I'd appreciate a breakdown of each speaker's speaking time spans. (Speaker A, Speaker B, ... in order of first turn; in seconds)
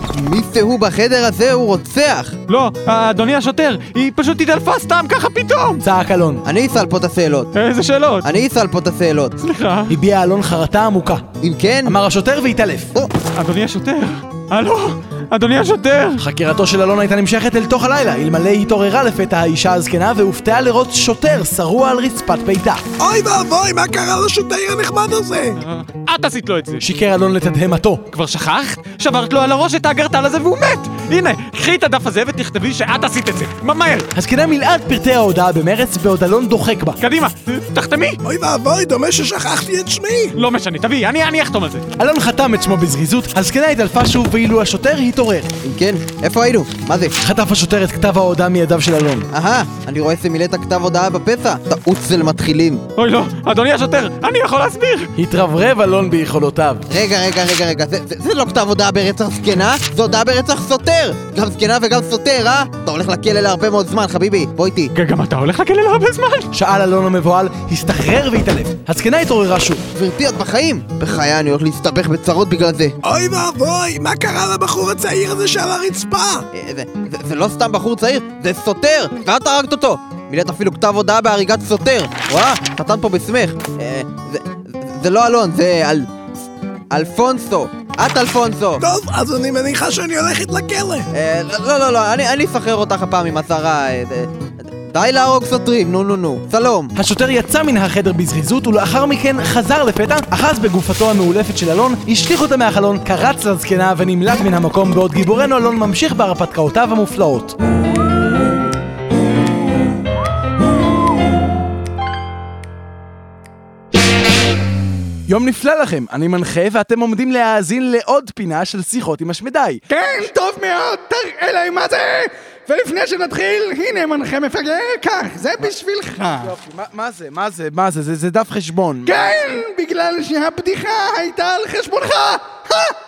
Speaker A: 0.1-2.4, 6.4-7.5, 8.2-9.4, 11.4-11.9, 45.6-47.1, 49.3-52.8, 56.9-64.9, 69.9-73.0, 76.5-86.1, 86.9-88.8, 91.1-96.9
Speaker B: 2.5-5.8, 7.5-8.3, 9.4-9.9, 13.3-16.2, 25.6-26.8, 28.1-34.1, 37.0-38.2, 40.4-41.8, 53.0-55.1, 64.9-66.5
Speaker C: 5.8-6.4, 9.9-11.2, 11.8-12.9, 16.2-22.8, 26.8-28.0, 34.1-37.0, 42.0-45.5, 47.2-49.3, 55.1-56.8, 66.5-69.8, 97.0-107.6, 115.3-119.8, 126.4-129.1
Speaker D: 23.0-25.6, 38.2-40.3, 73.0-76.4, 88.8-91.1
Speaker E: 119.9-126.5, 129.0-133.0